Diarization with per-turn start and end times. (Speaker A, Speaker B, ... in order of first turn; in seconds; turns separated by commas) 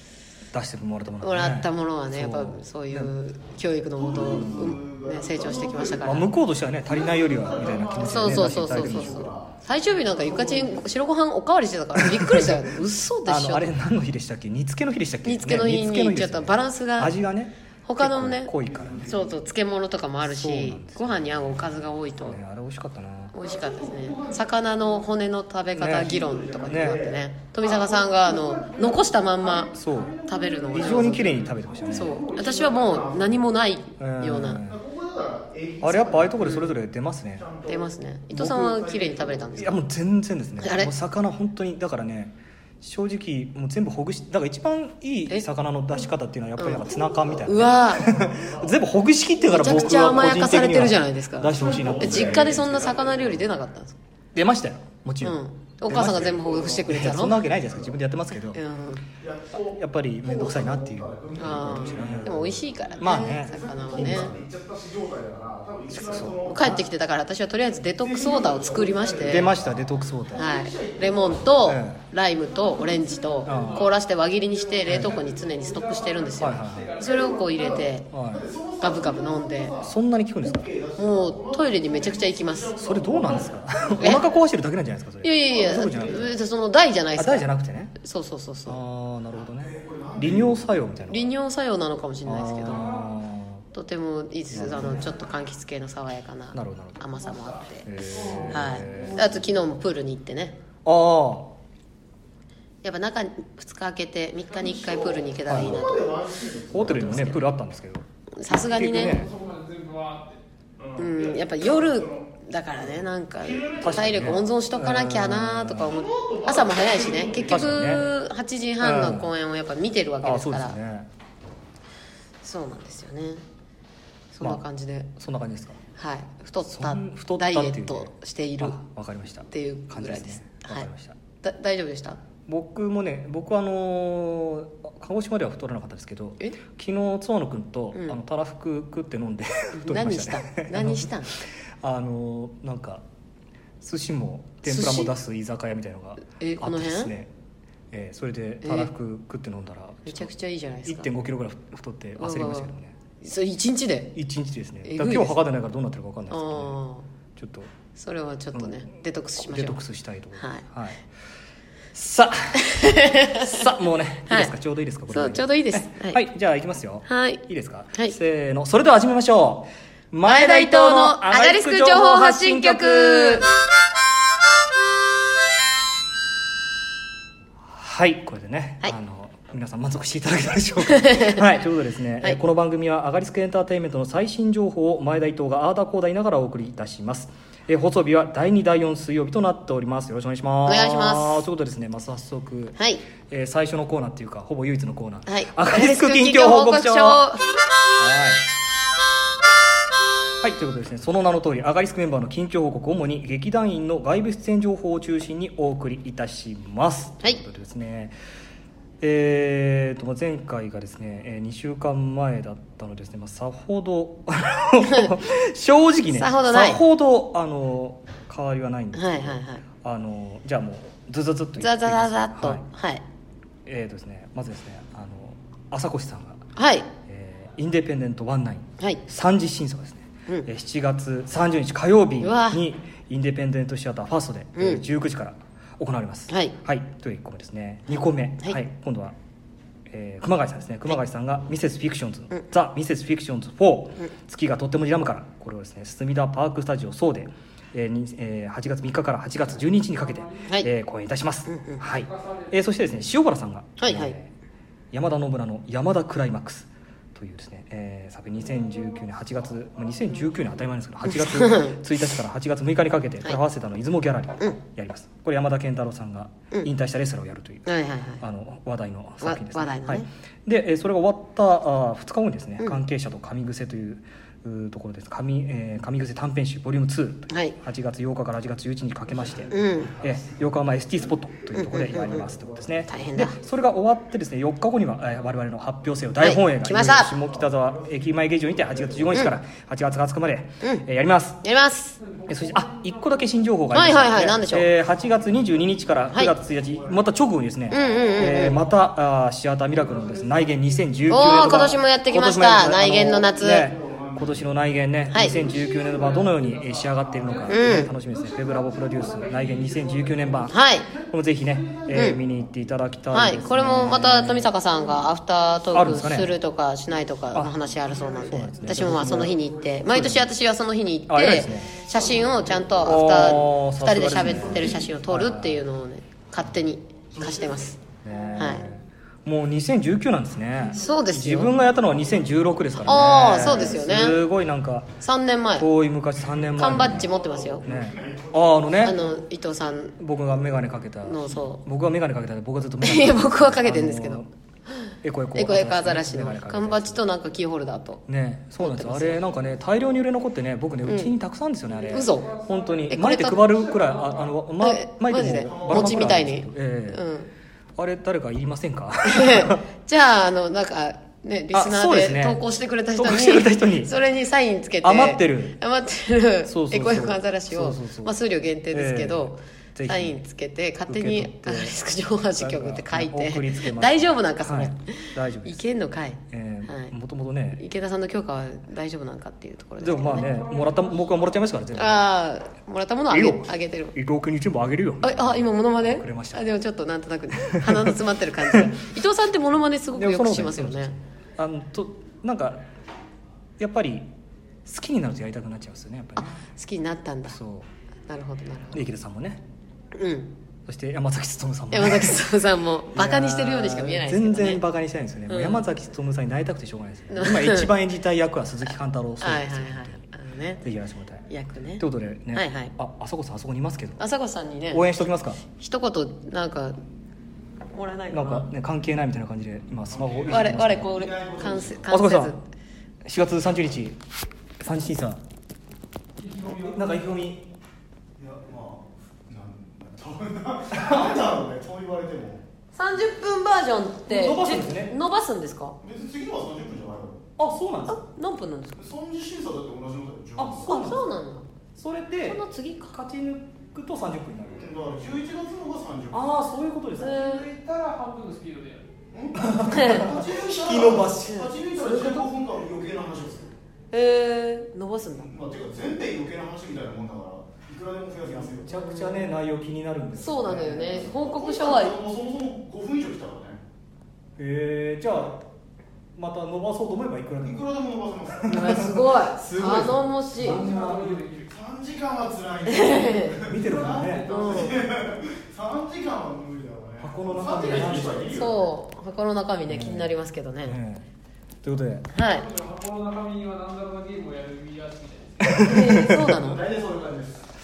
Speaker A: 0.5-3.1, Speaker B: 1.2-6.3, Speaker C: 4.0-6.2, Speaker A: 4.1-4.8, Speaker A: 6.0-9.3, Speaker C: 6.9-10.9, Speaker B: 8.0-13.7, Speaker A: 12.0-12.6, Speaker A: 13.2-19.1, Speaker B: 15.2-17.1, Speaker B: 17.8-18.5, Speaker C: 18.6-19.4, Speaker B: 19.0-22.4, Speaker A: 20.2-23.3, Speaker B: 23.3-29.7, Speaker C: 23.4-25.1, Speaker A: 25.7-27.1, Speaker C: 25.8-33.5, Speaker A: 29.7-30.2, Speaker B: 30.2-34.6, Speaker A: 30.7-32.2, Speaker A: 34.0-34.8, Speaker C: 34.6-36.6, Speaker A: 35.8-37.4, Speaker B: 36.4-36.7, Speaker C: 37.4-39.8, Speaker B: 37.7-39.8, Speaker A: 39.6-52.5, Speaker B: 40.6-40.9, Speaker B: 46.6-46.9, Speaker C: 46.7-48.8, Speaker B: 47.4-48.1, Speaker C: 49.4-50.4, Speaker B: 49.5-54.0, Speaker C: 51.5-53.5, Speaker A: 54.3-58.6, Speaker B: 55.2-57.4, Speaker C: 56.2-56.9, Speaker B: 58.5-59.0, Speaker C: 59.2-66.8, Speaker A: 59.8-64.4, Speaker B: 61.4-64.3, Speaker A: 65.9-66.8, Speaker B: 66.4-69.5, Speaker C: 68.0-71.7, Speaker A: 69.2-70.5, Speaker B: 70.3-78.1, Speaker A: 71.6-72.0, Speaker C: 72.5-73.9, Speaker D: 72.7-73.8, Speaker A: 73.5-73.9, Speaker D: 74.5-77.8, Speaker A: 74.8-75.1, Speaker A: 76.4-76.9, Speaker C: 77.0-84.2, Speaker A: 78.1-78.5, Speaker B: 78.8-79.7, Speaker A: 79.8-80.7, Speaker B: 81.0-82.8, Speaker A: 82.8-86.4, Speaker B: 85.2-88.8, Speaker C: 85.5-86.3, Speaker A: 87.1-87.9, Speaker A: 88.7-91.3, Speaker C: 89.4-91.0, Speaker B: 91.1-92.9, Speaker A: 92.2-93.6, Speaker D: 92.6-93.1, Speaker B: 93.7-97.9, Speaker A: 94.5-95.2, Speaker A: 96.5-97.0, Speaker A: 97.8-99.4, Speaker C: 98.1-99.2, Speaker B: 98.5-100.6, Speaker A: 100.8-101.5, Speaker B: 102.8-106.2, Speaker C: 104.5-107.4, Speaker A: 105.5-105.8, Speaker A: 106.7-109.3, Speaker B: 106.9-107.4, Speaker B: 108.3-109.2, Speaker D: 108.8-110.4, Speaker C: 110.8-114.4, Speaker B: 111.0-120.8, Speaker A: 113.8-115.9, Speaker C: 115.8-118.0, Speaker A: 117.5-118.1, Speaker A: 118.8-119.3, Speaker A: 120.2-121.1, Speaker B: 122.4-123.4, Speaker B: 124.3-125.1, Speaker A: 125.2-125.8, Speaker B: 126.0-128.8, Speaker A: 126.7-131.2, Speaker B: 129.5-130.9, Speaker B: 131.4-132.2, Speaker A: 132.5-141.1, Speaker B: 137.9-138.2, Speaker B: 139.7-141.3, Speaker A: 141.8-143.0, Speaker A: 143.8-147.3, Speaker B: 144.7-145.1, Speaker B: 146.2-147.1, Speaker A: 147.9-150.3, Speaker B: 148.6-148.9, Speaker B: 150.1-151.1, Speaker A: 150.8-152.9, Speaker B: 152.2-154.1, Speaker A: 154.1-156.8, Speaker B: 154.8-155.4, Speaker B: 156.3-157.1, Speaker A: 157.3-157.7, Speaker B: 157.9-159.8, Speaker A: 158.5-158.9, Speaker A: 159.4-161.0, Speaker B: 160.4-160.6, Speaker A: 161.9-162.6, Speaker B: 162.6-163.7, Speaker A: 163.4-173.4, Speaker B: 164.3-164.5, Speaker B: 165.1-166.2, Speaker B: 167.1-167.4, Speaker B: 170.2-173.5, Speaker A: 177.6-197.2, Speaker B: 180.9-181.4, Speaker B: 190.7-191.4, Speaker B: 192.8-193.0, Speaker B: 195.2-197.4, Speaker A: 198.0-198.4, Speaker A: 200.4-208.1, Speaker A: 209.0-222.6, Speaker B: 214.8-215.1, Speaker B: 216.1-216.8, Speaker B: 218.9-219.6, Speaker B: 221.6-223.0, Speaker A: 223.6-226.4, Speaker B: 226.6-226.9, Speaker A: 227.1-239.2, Speaker B: 232.2-232.6, Speaker B: 234.6-234.8, Speaker B: 236.3-236.5, Speaker A: 239.9-254.3, Speaker D: 249.7-250.5, Speaker B: 251.4-251.8, Speaker D: 251.9-252.6, Speaker B: 253.8-254.2, Speaker A: 254.9-267.7, Speaker B: 261.0-261.8, Speaker B: 267.6-268.2, Speaker A: 268.2-291.4, Speaker B: 269.2-270.1, Speaker B: 277.3-277.6, Speaker C: 279.1-280.4, Speaker B: 279.5-280.0, Speaker B: 281.5-282.3, Speaker C: 281.7-283.1, Speaker B: 282.9-283.4, Speaker B: 286.2-287.1, Speaker C: 286.8-289.3, Speaker B: 291.4-292.0, Speaker D: 292.0-294.0, Speaker A: 292.3-310.6, Speaker B: 293.7-294.7, Speaker D: 294.6-295.3, Speaker C: 295.0-297.1, Speaker B: 297.7-298.6, Speaker C: 297.7-298.6, Speaker D: 299.7-301.7, Speaker B: 301.1-303.7, Speaker C: 303.1-304.5, Speaker B: 305.1-305.4, Speaker C: 305.2-306.3, Speaker D: 305.2-311.0, Speaker C: 307.0-307.5, Speaker B: 307.5-307.9, Speaker B: 310.5-310.9, Speaker C: 310.9-312.5, Speaker A: 311.1-314.5, Speaker B: 311.9-312.2, Speaker B: 313.1-327.8, Speaker C: 313.3-313.6, Speaker A: 315.7-316.4, Speaker C: 317.5-320.2, Speaker A: 318.2-320.3, Speaker A: 321.1-321.8, Speaker C: 321.7-323.1, Speaker A: 322.8-325.6, Speaker C: 324.1-324.9, Speaker C: 327.1-327.7, Speaker A: 328.0-334.9, Speaker B: 328.4-328.6, Speaker B: 330.7-331.6, Speaker C: 331.8-332.4, Speaker B: 332.8-334.2, Speaker C: 332.9-333.8, Speaker B: 335.0-335.7, Speaker A: 335.6-337.1, Speaker B: 336.6-337.6, Speaker C: 336.6-339.2, Speaker A: 337.6-338.9, Speaker B: 338.8-340.0, Speaker A: 340.0-344.3, Speaker B: 341.0-341.6, Speaker B: 342.8-344.3, Speaker B: 344.8-348.1, Speaker A: 345.0-347.0, Speaker A: 348.1-357.0, Speaker B: 348.6-349.2, Speaker B: 350.8-351.1, Speaker D: 351.7-354.4, Speaker B: 351.9-352.3, Speaker B: 352.9-353.4, Speaker B: 354.6-357.3, Speaker C: 355.2-356.2, Speaker A: 357.8-359.6, Speaker B: 359.0-376.9, Speaker A: 361.5-362.4, Speaker A: 362.9-363.9, Speaker A: 364.8-365.6, Speaker A: 366.4-368.1, Speaker A: 368.7-370.2, Speaker A: 370.9-371.8, Speaker A: 372.4-375.6, Speaker A: 376.3-377.6, Speaker B: 377.5-380.3, Speaker A: 379.8-382.1, Speaker D: 379.9-381.5, Speaker B: 381.7-383.9, Speaker A: 383.1-386.5, Speaker B: 385.0-390.9, Speaker A: 387.4-388.7, Speaker A: 389.9-392.6, Speaker A: 393.6-394.1, Speaker A: 394.6-396.4, Speaker B: 396.1-397.4, Speaker A: 397.2-397.7, Speaker B: 398.1-398.8, Speaker A: 398.7-399.4, Speaker B: 399.9-400.3, Speaker A: 400.6-402.2, Speaker B: 401.7-404.6, Speaker A: 402.9-410.0, Speaker B: 405.3-405.7, Speaker B: 407.1-407.7, Speaker B: 409.2-410.6, Speaker A: 410.6-411.3, Speaker B: 411.3-412.7, Speaker A: 411.8-414.0, Speaker B: 414.0-416.8, Speaker A: 414.7-415.4, Speaker B: 417.7-418.5, Speaker A: 418.1-420.9, Speaker C: 419.9-421.9, Speaker B: 420.3-422.4, Speaker A: 421.9-422.3, Speaker A: 423.0-424.0, Speaker A: 424.6-425.2, Speaker D: 426.2-427.1, Speaker A: 426.5-427.4, Speaker C: 428.2-432.4, Speaker A: 430.7-431.2, Speaker B: 432.7-435.8, Speaker A: 434.1-434.9, Speaker C: 435.8-437.2, Speaker A: 437.4-438.0, Speaker B: 437.9-438.8, Speaker C: 438.8-441.0, Speaker A: 440.4-441.0, Speaker B: 440.6-441.4, Speaker A: 441.8-444.7, Speaker B: 442.2-442.9, Speaker C: 444.6-446.3, Speaker A: 446.1-447.4, Speaker B: 447.0-447.5, Speaker D: 447.1-448.9, Speaker C: 449.1-453.6, Speaker A: 449.4-451.5, Speaker B: 449.7-450.1, Speaker B: 451.2-452.3, Speaker B: 453.9-455.3, Speaker C: 455.2-458.8, Speaker A: 458.3-461.1, Speaker B: 458.7-459.4, Speaker B: 460.1-461.9, Speaker C: 460.5-463.6, Speaker A: 464.4-465.4, Speaker A: 466.1-467.7, Speaker C: 467.4-468.9, Speaker A: 468.4-471.2, Speaker B: 468.5-470.6, Speaker C: 470.5-478.6, Speaker D: 470.6-471.5, Speaker B: 472.7-473.4, Speaker A: 473.4-474.3, Speaker D: 473.9-474.6, Speaker B: 474.3-474.8, Speaker A: 477.0-478.5, Speaker B: 478.3-480.8, Speaker A: 479.7-481.0, Speaker A: 481.6-482.1, Speaker B: 482.1-482.5, Speaker D: 482.2-485.6, Speaker A: 485.4-486.3, Speaker B: 485.6-486.6, Speaker C: 485.9-487.4